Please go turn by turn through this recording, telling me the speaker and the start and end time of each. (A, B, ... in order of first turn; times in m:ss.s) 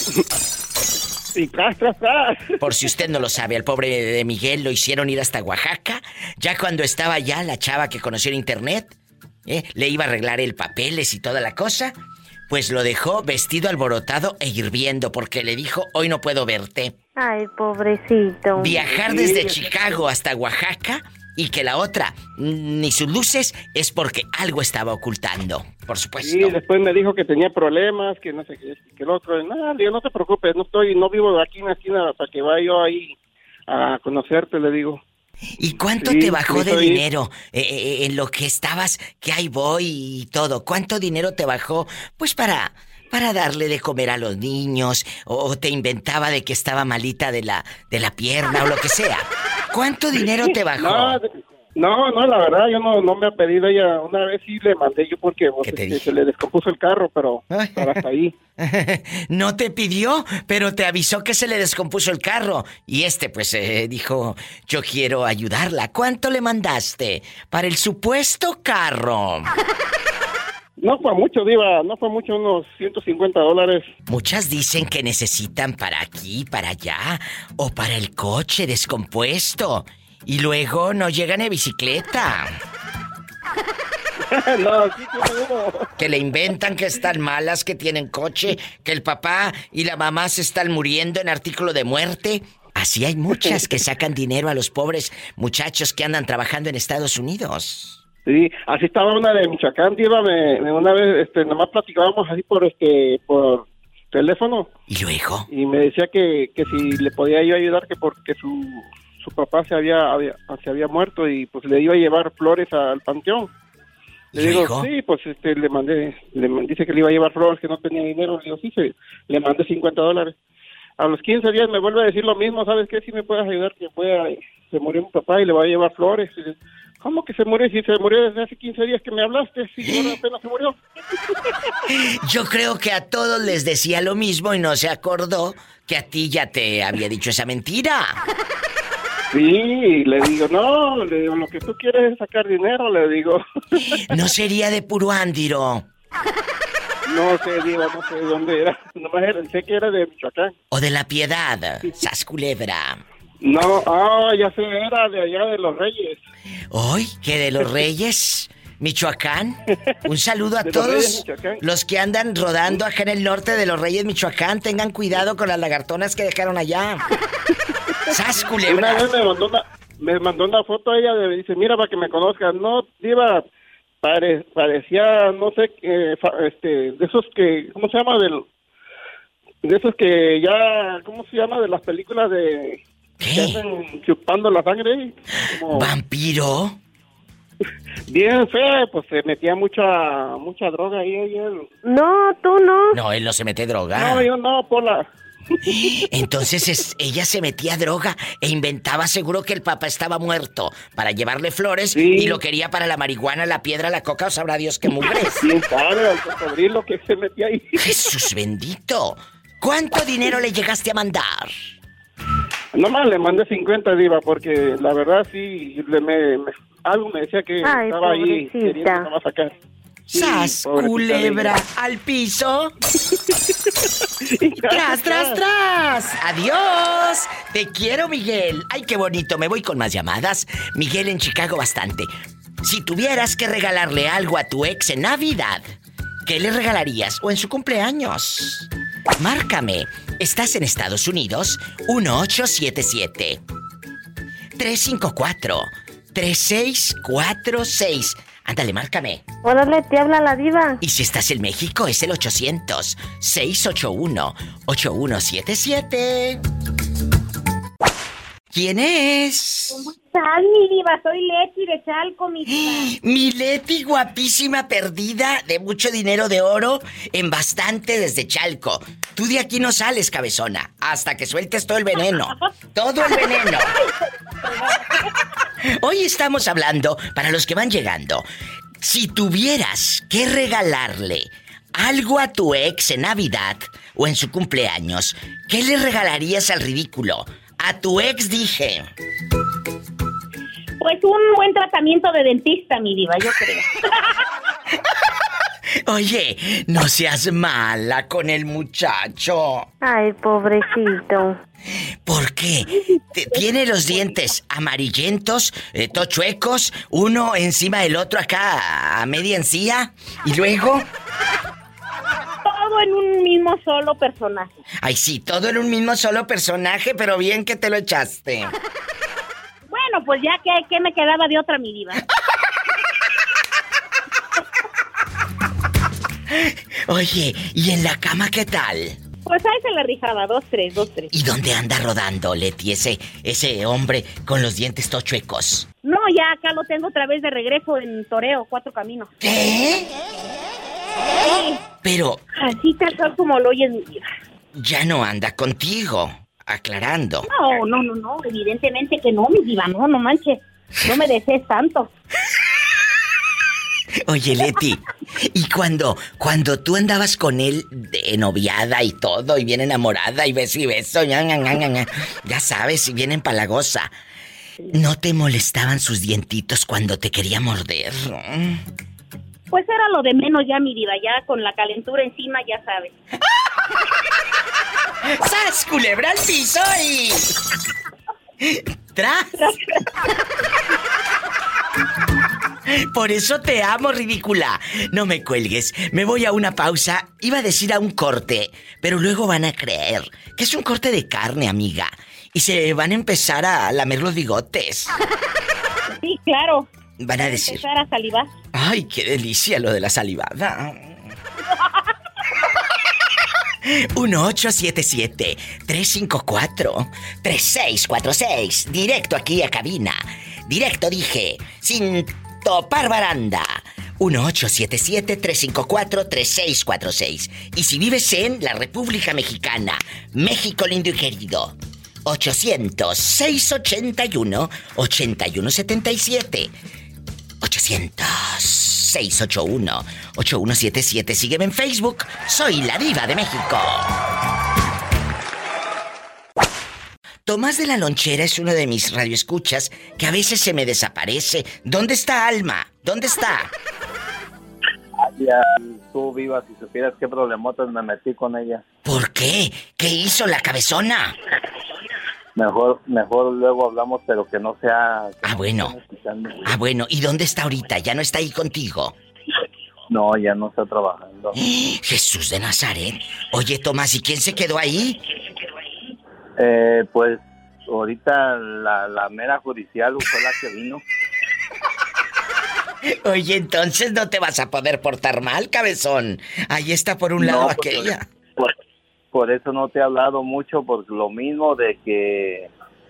0:01.3-0:02.6 A
0:02.6-0:08.9 B
0:09.5-0:12.0 B
0:12.5-0:17.0 B
0:17.2-0:18.8 C
0:18.6-0:26.6 B
0:18.8-0:20.0 A
0:26.2-0:33.2 A
0:33.7-0:35.0 A
0:35.6-0:51.2 B
0:36.0-0:37.0 A
0:50.2-0:58.4 A
0:55.6-0:56.1 B
0:57.5-0:58.0 B
0:58.6-1:09.5 B
1:10.8-1:13.9 A
1:14.1-1:22.5 B
1:24.2-1:25.9 A
1:26.0-1:38.0 B
1:38.3-1:44.7 A
1:44.9-1:45.5 B
1:45.5-1:53.5 A
1:54.3-1:54.9 B
1:54.4-2:00.4 A
2:01.0-2:10.8 A
2:09.9-2:10.1 B
2:12.0-2:18.2 B
2:19.3-2:24.0 A
2:24.1-2:25.9 B
2:27.1-2:30.5 A
2:30.7-2:33.0 B
2:33.4-2:36.2 A
2:36.7-2:47.0 B
2:40.6-2:41.6 A
2:48.1-2:49.1 B
2:48.6-2:53.4 A
2:54.0-2:58.5 A
2:59.6-3:05.9 A
3:03.2-3:03.6 B
3:05.7-3:06.8 B
3:08.1-3:11.7 A
3:11.8-3:13.0 C
3:12.9-3:14.3 B
3:13.9-3:15.1 A
3:15.7-3:25.5 B
3:21.9-3:22.4 A
3:25.4-3:28.1 A
3:27.8-3:31.7 B
3:32.8-3:39.5 A
3:37.6-3:39.1 C
3:40.1-3:42.7 B
3:40.2-3:41.6 A
3:44.4-3:45.4 A
3:44.6-3:52.1 B
3:52.6-3:55.6 B
3:56.2-4:03.4 B
4:04.6-4:09.2 B
4:09.4-4:10.8 C
4:10.8-4:16.4 B
4:18.5-4:19.9 B
4:20.0-4:22.9 D
4:22.4-4:33.7 B
4:35.8-4:38.3 B
4:38.8-4:48.9 B
4:50.8-4:53.7 D
4:55.9-4:59.7 B
4:59.8-5:01.4 C
5:02.1-5:10.9 B
5:12.5-5:14.5 D
5:14.8-5:18.5 B
5:19.7-5:22.0 D
5:26.3-5:29.0 B
5:29.3-5:31.1 D
5:31.1-5:35.7 B
5:35.8-5:39.1 D
5:39.2-5:39.9 B
5:41.2-5:41.6 D
5:41.8-5:42.2 B
5:42.4-5:44.0 D
5:44.6-5:47.3 B
5:47.3-5:51.9 D
5:54.1-6:03.9 B
6:04.7-6:08.6 B
6:09.5-6:12.9 D
6:15.1-6:17.3 B
6:18.4-6:19.5 B
6:22.7-6:35.0 B
6:36.0-6:36.7 D
6:37.0-6:37.7 B
6:37.2-6:38.3 D
6:38.5-6:40.9 B
6:43.7-7:06.5 B
7:07.4-7:13.9 B
7:17.3-7:23.5 B
7:25.0-7:28.6 E
7:28.8-7:31.2 B
7:32.4-7:36.5 E
7:35.2-7:35.8 B
7:36.5-7:39.0 B
7:39.9-7:41.4 E
7:41.4-7:45.0 B
7:46.4-7:50.8 E
7:52.9-7:58.0 B
7:57.2-7:58.5 E
7:59.1-8:02.5 E